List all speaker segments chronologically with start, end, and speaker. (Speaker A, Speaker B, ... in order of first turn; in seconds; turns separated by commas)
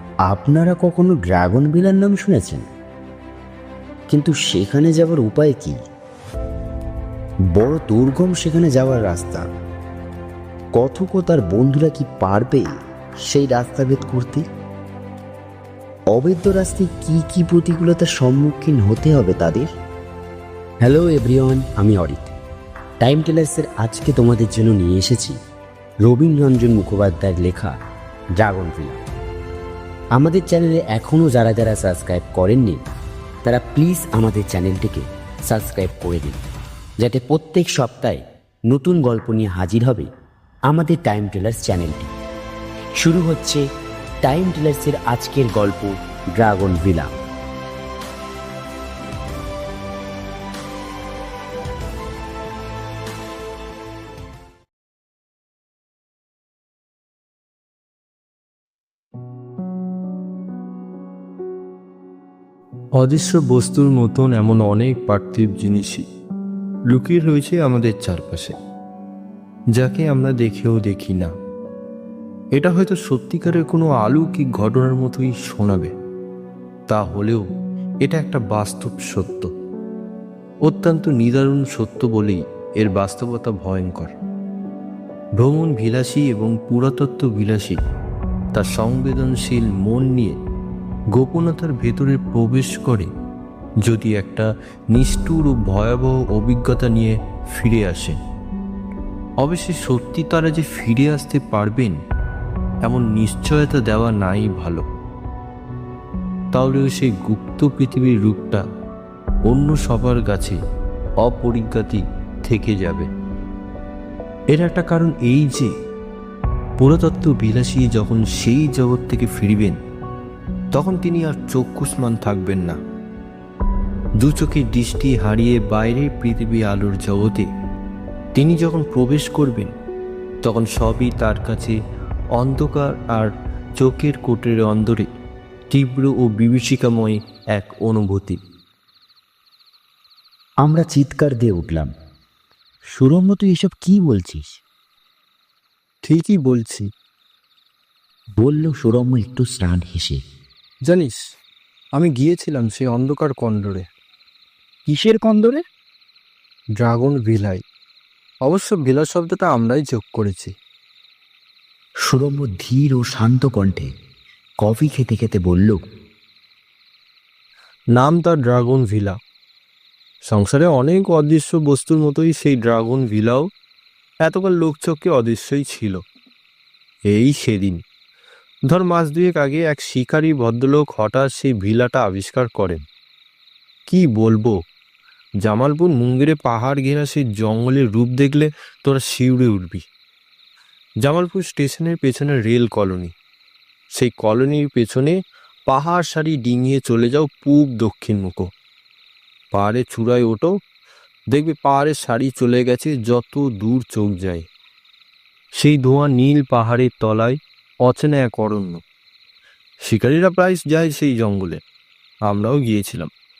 Speaker A: 0.3-2.6, Speaker A: 4.1-5.8, Speaker A: 7.5-9.4, Speaker A: 10.7-12.7, Speaker A: 13.2-14.5, Speaker A: 16.1-19.7, Speaker A: 20.8-22.4, Speaker A: 23.0-25.4, Speaker A: 26.0-27.8, Speaker A: 28.4-29.0, Speaker A: 30.1-32.8, Speaker A: 33.4-36.4, Speaker A: 37.0-40.1, Speaker A: 40.7-42.1, Speaker A: 43.0-43.6, Speaker A: 44.2-47.1, Speaker B: 63.0-66.0, Speaker B: 66.9-68.5, Speaker B: 69.8-71.3, Speaker B: 72.5-75.9, Speaker B: 76.9-77.5, Speaker B: 78.0-79.5, Speaker B: 80.6-84.1, Speaker B: 85.4-87.8, Speaker B: 88.5-90.3, Speaker B: 91.2-93.1, Speaker B: 93.8-98.2, Speaker B: 99.4-102.0, Speaker B: 102.8-104.8, Speaker B: 106.5-108.6, Speaker B: 109.5-110.6, Speaker B: 111.2-113.1, Speaker B: 114.5-115.7, Speaker B: 116.8-119.8, Speaker B: 120.7-122.8, Speaker B: 124.2-127.5, Speaker B: 128.3-129.7, Speaker B: 130.4-131.8, Speaker B: 132.3-135.1, Speaker B: 135.7-138.4, Speaker A: 140.6-141.9, Speaker A: 142.9-144.6, Speaker B: 146.0-146.9, Speaker A: 148.4-150.2, Speaker B: 150.9-151.2, Speaker B: 151.9-153.8, Speaker A: 154.9-155.6, Speaker B: 156.8-157.6, Speaker B: 158.4-160.5, Speaker A: 162.1-163.9, Speaker A: 164.6-165.8, Speaker B: 167.9-169.2, Speaker B: 170.3-173.5, Speaker B: 174.2-176.0, Speaker B: 177.1-177.8, Speaker B: 178.7-182.8, Speaker B: 183.9-184.6, Speaker B: 185.4-189.8, Speaker B: 191.0-193.1, Speaker B: 194.0-198.5, Speaker B: 199.5-200.5, Speaker B: 201.3-204.4, Speaker B: 205.6-208.8, Speaker B: 209.9-211.6, Speaker B: 212.3-213.1